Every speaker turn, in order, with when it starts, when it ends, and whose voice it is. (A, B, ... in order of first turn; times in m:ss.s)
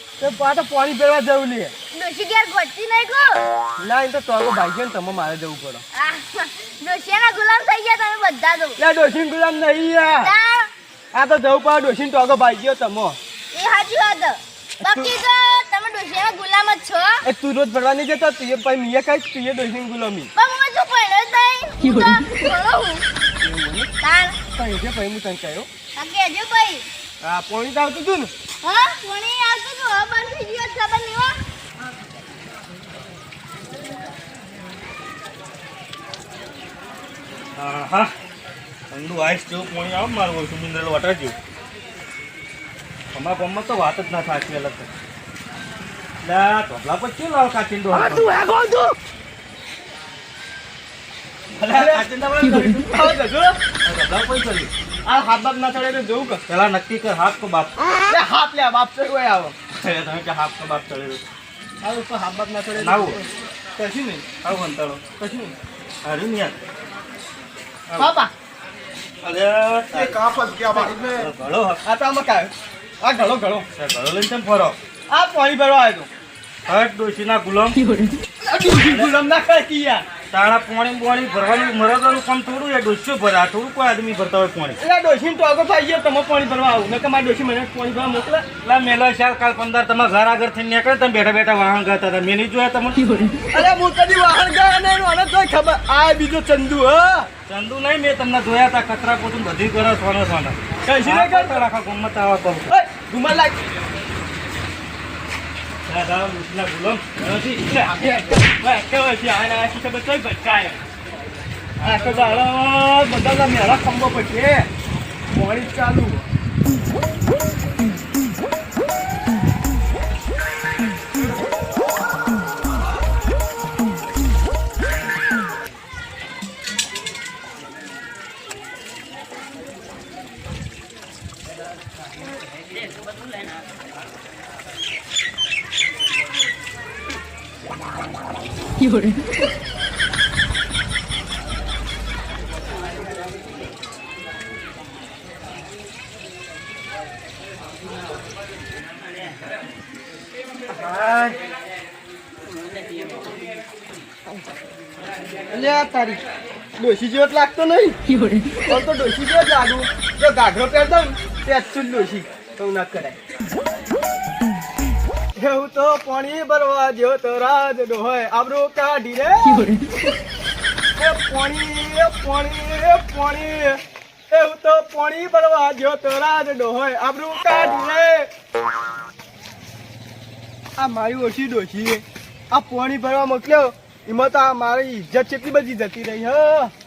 0:00.2-0:01.8 A
0:01.9-0:03.4 B
0:03.8-0:05.8 A
0:05.9-0:08.8 B
0:08.8-0:10.3 A
0:10.2-0:10.7 B
0:11.1-0:13.2 A
0:13.5-0:17.3 B
0:14.8-0:15.1 A
0:17.2-0:20.3 A
0:20.4-0:23.0 B
0:23.4-0:23.9 A
0:24.0-0:24.4 B
0:24.5-0:25.7 A
0:26.0-0:26.9 B
0:27.2-0:28.3 A
0:28.6-0:31.4 B
0:37.6-0:38.1 C
0:38.9-0:41.4 C
0:43.1-0:44.9 C
0:46.2-0:48.4 C
0:51.6-0:53.0 C
0:51.7-0:52.1 A
0:52.9-0:53.6 A
0:53.8-0:54.7 C
0:55.1-0:56.4 A
0:56.5-0:57.8 C
0:58.1-0:59.6 A
0:59.7-1:01.3 C
1:01.8-1:03.2 A
1:02.8-1:03.2 C
1:03.8-1:04.3 A
1:04.4-1:05.1 C
1:05.2-1:05.6 A
1:06.0-1:06.6 C
1:07.9-1:08.1 C
1:08.0-1:08.3 A
1:09.2-1:10.2 C
1:09.9-1:11.3 A
1:10.7-1:11.8 C
1:11.8-1:12.5 A
1:13.0-1:13.6 A
1:13.8-1:14.8 C
1:15.1-1:16.1 A
1:16.7-1:17.9 C
1:18.4-1:20.0 A
1:18.8-1:19.1 C
1:20.3-1:24.8 C
1:24.8-1:28.5 A
1:28.6-1:33.3 C
1:33.5-1:37.3 A
1:37.5-1:42.7 C
1:40.8-1:41.7 A
1:42.7-1:43.6 A
1:45.9-1:47.9 C
1:47.8-1:50.8 A
1:51.8-1:54.7 A
1:51.8-1:52.3 C
1:55.3-1:56.2 A
2:30.7-2:31.4 A
2:35.5-2:36.2 A
2:36.8-2:38.0 A
2:38.7-2:43.2 A
2:45.4-2:49.8 A
2:51.0-2:58.3 A
3:00.8-3:06.7 A